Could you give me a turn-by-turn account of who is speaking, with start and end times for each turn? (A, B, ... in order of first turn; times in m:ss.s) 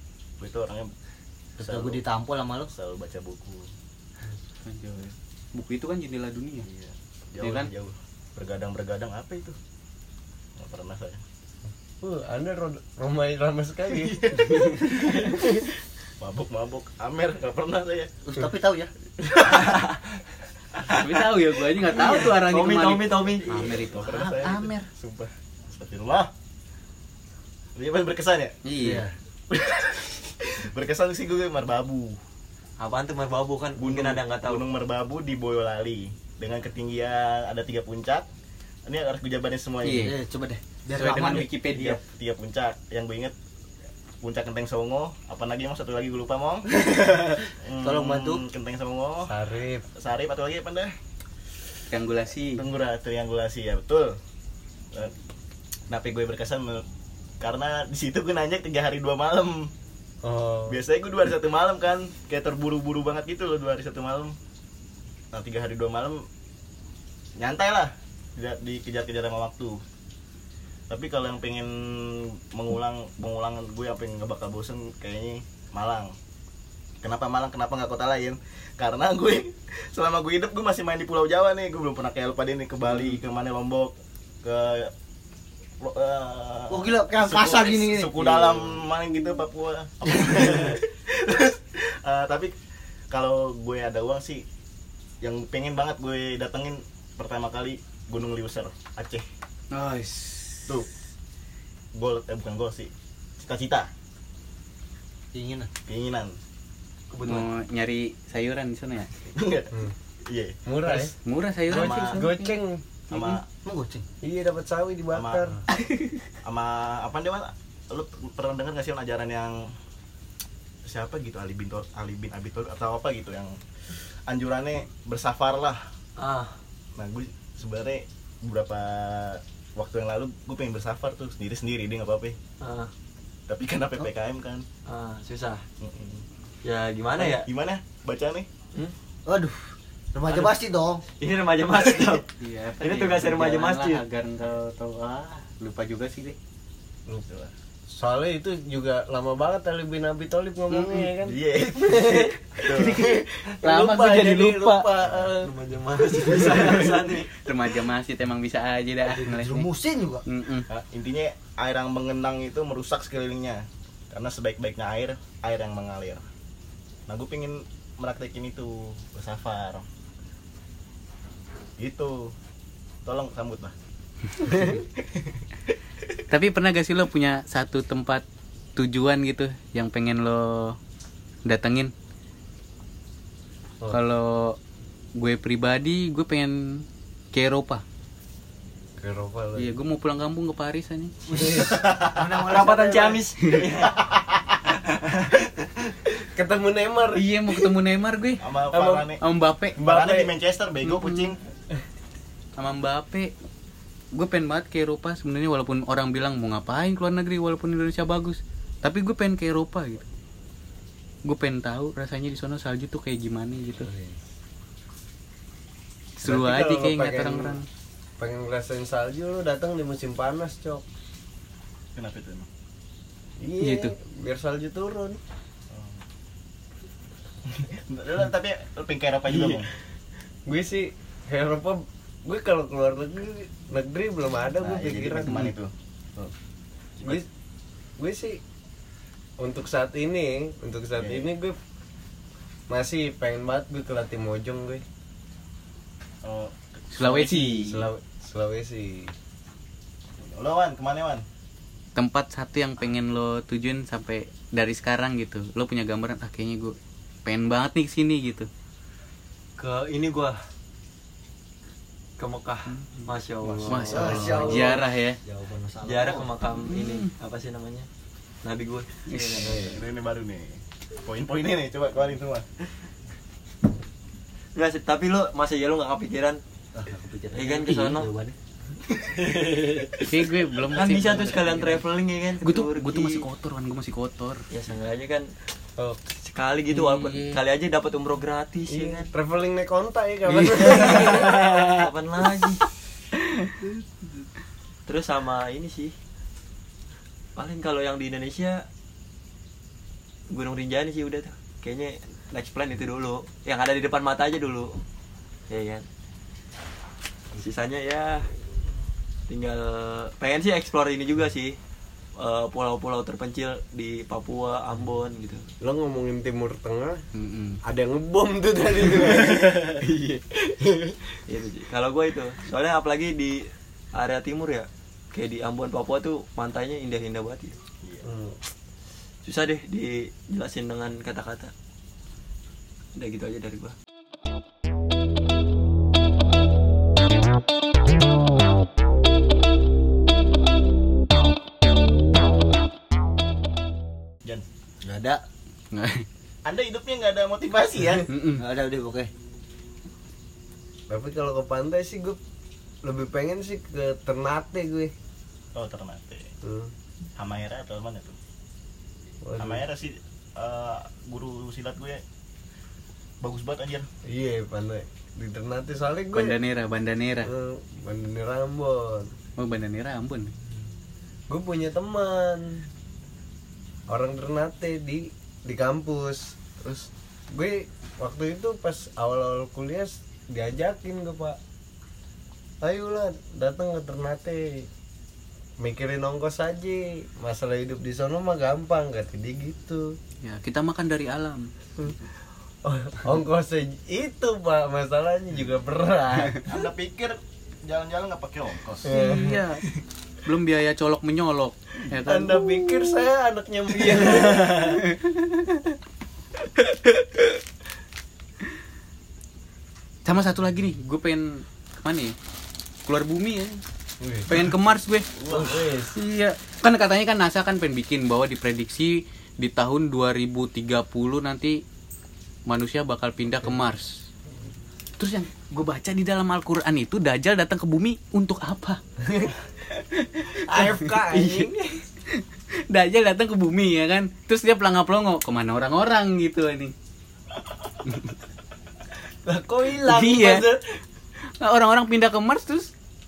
0:00.4-0:00.9 A
0:01.6-0:02.7 B
0:01.6-0:02.0 A
0:02.7-0:03.7 A
0:04.6-0:06.7 C
0:06.7-0:09.6 A
0:07.4-0:07.7 C
0:10.6-0:11.2 A
0:12.0-0:15.7 D
0:14.0-0:15.7 A
0:16.2-0:18.2 A
0:18.2-0:18.9 B
0:19.2-0:19.8 A
0:20.9-0:24.9 C
0:21.8-0:23.5 E
0:23.4-0:26.3 A
0:27.8-0:28.6 A
0:28.6-0:29.0 C
0:28.8-0:29.1 B
0:29.5-0:32.2 A
0:32.8-0:34.6 E
0:33.8-0:38.3 A
0:38.8-0:40.1 A
0:39.8-0:40.2 C
0:39.9-0:41.5 B
0:40.9-0:42.0 C
0:41.6-0:43.3 A
0:44.2-0:49.3 A
0:46.8-0:48.4 B
0:49.2-0:49.8 D
0:50.0-0:50.9 A
0:51.9-0:52.6 C
0:52.6-0:54.2 A
0:55.9-0:56.8 A
0:57.4-0:59.7 A
1:00.2-1:00.8 D
1:00.7-1:04.3 A
1:05.3-1:06.2 A
1:07.4-1:09.8 A
1:10.9-1:16.1 A
1:17.0-1:24.9 A
1:25.8-1:32.5 A
1:26.7-1:28.7 B
1:33.1-1:34.4 A
1:35.2-1:39.2 A
1:39.7-1:40.8 C
1:41.9-1:43.9 A
1:45.3-1:45.7 B
1:45.9-1:46.3 A
1:47.1-1:47.5 E
1:47.2-1:49.1 C
1:49.3-1:49.7 A
1:50.2-1:51.1 A
1:50.6-1:51.1 D
1:51.2-1:52.6 C
1:51.7-1:52.8 D
1:51.7-1:52.3 A
1:53.1-1:53.4 A
1:53.5-1:54.0 B
1:54.2-1:55.6 D
1:55.1-1:55.5 A
1:55.7-1:56.2 C
1:56.4-1:59.7 A
2:00.8-2:03.6 A
2:04.3-2:05.8 A
2:06.2-2:06.5 E
2:07.0-2:12.4 A
2:12.6-2:12.9 E
2:13.5-2:14.6 A
2:14.8-2:15.6 E
2:15.8-2:16.2 A
2:16.6-2:17.5 E
2:17.2-2:18.5 A
2:19.2-2:19.6 B
2:20.1-2:21.0 B
2:21.2-2:22.3 E
2:22.4-2:26.4 C
2:22.8-2:24.0 E
2:27.1-2:27.5 A
2:27.9-2:36.8 D
2:30.7-2:31.1 C
2:31.2-2:33.0 A
2:32.7-2:34.9 C
2:35.0-2:35.3 A
2:35.4-2:37.3 E
2:36.7-2:37.1 A
2:37.4-2:39.7 C
2:39.1-2:40.2 B
2:40.2-2:40.7 C
2:40.7-2:46.2 A
2:47.1-2:49.8 A
2:51.8-2:52.3 A
2:53.0-2:53.7 A
2:54.5-2:55.4 A
2:56.3-2:58.2 C
2:58.8-3:00.8 C
3:01.4-3:01.9 C
3:03.9-3:04.6 C
3:05.2-3:07.8 C
3:09.0-3:09.7 D
3:09.6-3:11.1 C
3:11.3-3:13.2 B
3:11.4-3:11.8 D
3:11.6-3:12.2 A
3:12.1-3:13.9 E
3:13.8-3:14.6 A
3:15.0-3:15.4 E
3:16.3-3:17.3 D
3:17.1-3:19.8 C
3:18.4-3:19.2 A
3:18.7-3:19.0 D
3:19.8-3:20.3 D
3:19.8-3:21.4 A
3:20.8-3:21.3 C
3:22.6-3:23.3 C
3:24.1-3:30.1 C
3:31.2-3:33.9 C
3:33.8-3:34.2 D
3:36.2-3:37.6 C
3:36.2-3:37.6 D
3:38.2-3:40.8 D
3:41.9-3:42.5 A
3:43.4-3:45.2 D
3:43.6-3:43.9 C
3:45.7-3:46.0 A
3:47.5-3:49.7 A
3:49.4-3:49.6 D
3:50.4-3:55.5 D
3:54.6-3:56.3 A
3:58.0-3:58.4 D
3:59.4-4:01.6 D
4:01.0-4:01.3 A
4:02.7-4:04.8 D
4:06.2-4:07.7 A
4:06.9-4:07.9 C
4:07.6-4:09.1 D
4:10.2-4:11.2 A
4:11.9-4:18.5 C
4:19.6-4:20.4 E
4:22.2-4:24.5 E
4:22.7-4:23.1 C
4:23.4-4:24.5 A
4:23.7-4:25.2 C
4:23.9-4:26.3 B
4:23.9-4:24.5 D
4:25.8-4:27.9 E
4:26.6-4:27.1 C
4:28.4-4:29.7 E
4:29.1-4:29.6 C
4:29.4-4:29.8 D
4:29.4-4:32.4 A
4:34.6-4:36.4 E
4:36.7-4:38.4 B
4:37.3-4:38.1 E
4:39.0-4:39.3 A
4:39.3-4:39.9 E
4:40.0-4:41.8 C
4:40.6-4:41.2 A
4:40.7-4:43.2 E
4:42.4-4:44.4 C
4:44.5-4:45.3 E
4:45.8-4:46.1 D
4:46.2-4:49.1 E
4:46.7-4:47.4 C
4:48.7-4:51.6 D
4:50.3-4:51.8 C
4:50.9-4:52.6 E
4:53.2-4:53.5 C
4:54.9-4:55.9 E
4:57.4-4:58.6 E
5:00.3-5:04.8 E
5:05.5-5:05.8 E
5:07.4-5:08.3 E
5:09.3-5:11.6 E
5:12.2-5:15.4 E
5:15.6-5:17.0 D
5:17.1-5:17.6 C
5:17.6-5:21.2 D
5:21.3-5:27.6 E
5:28.0-5:28.4 D
5:29.2-5:31.5 E
5:33.0-5:33.7 E
5:44.8-5:45.2 B
5:45.7-5:46.0 C
5:46.4-5:48.1 A
5:48.1-5:48.4 C
5:48.3-5:49.1 B
5:50.9-5:52.2 D
5:52.8-5:54.9 D
5:55.5-5:56.3 A
5:56.4-5:56.7 D
5:57.2-5:58.2 A
5:59.2-5:59.6 D
5:59.4-6:02.0 A
6:03.2-6:03.9 A
6:04.0-6:06.4 D
6:06.1-6:07.3 C
6:07.2-6:09.1 D
6:09.4-6:10.3 C
6:11.3-6:12.7 D
6:13.9-6:21.4 D
6:22.6-6:24.7 D
6:25.6-6:30.0 D
6:30.2-6:31.5 C
6:32.6-6:36.4 D
6:36.5-6:38.9 A
6:38.8-6:39.4 D
6:38.9-6:39.6 C
6:40.2-6:42.9 C
6:42.0-6:44.8 D
6:43.8-6:45.4 C
6:50.0-6:52.2 C
6:52.8-6:53.6 C
6:54.0-6:54.5 D
6:54.3-6:55.1 C
6:55.2-6:56.0 D
6:55.2-6:55.6 A
6:55.9-7:01.6 C
7:02.5-7:04.0 C
7:05.0-7:08.8 C
7:09.0-7:09.3 D
7:09.7-7:11.5 C
7:10.4-7:11.7 D
7:12.1-7:16.7 C
7:19.2-7:20.6 D
7:19.8-7:20.4 C
7:21.4-7:22.7 C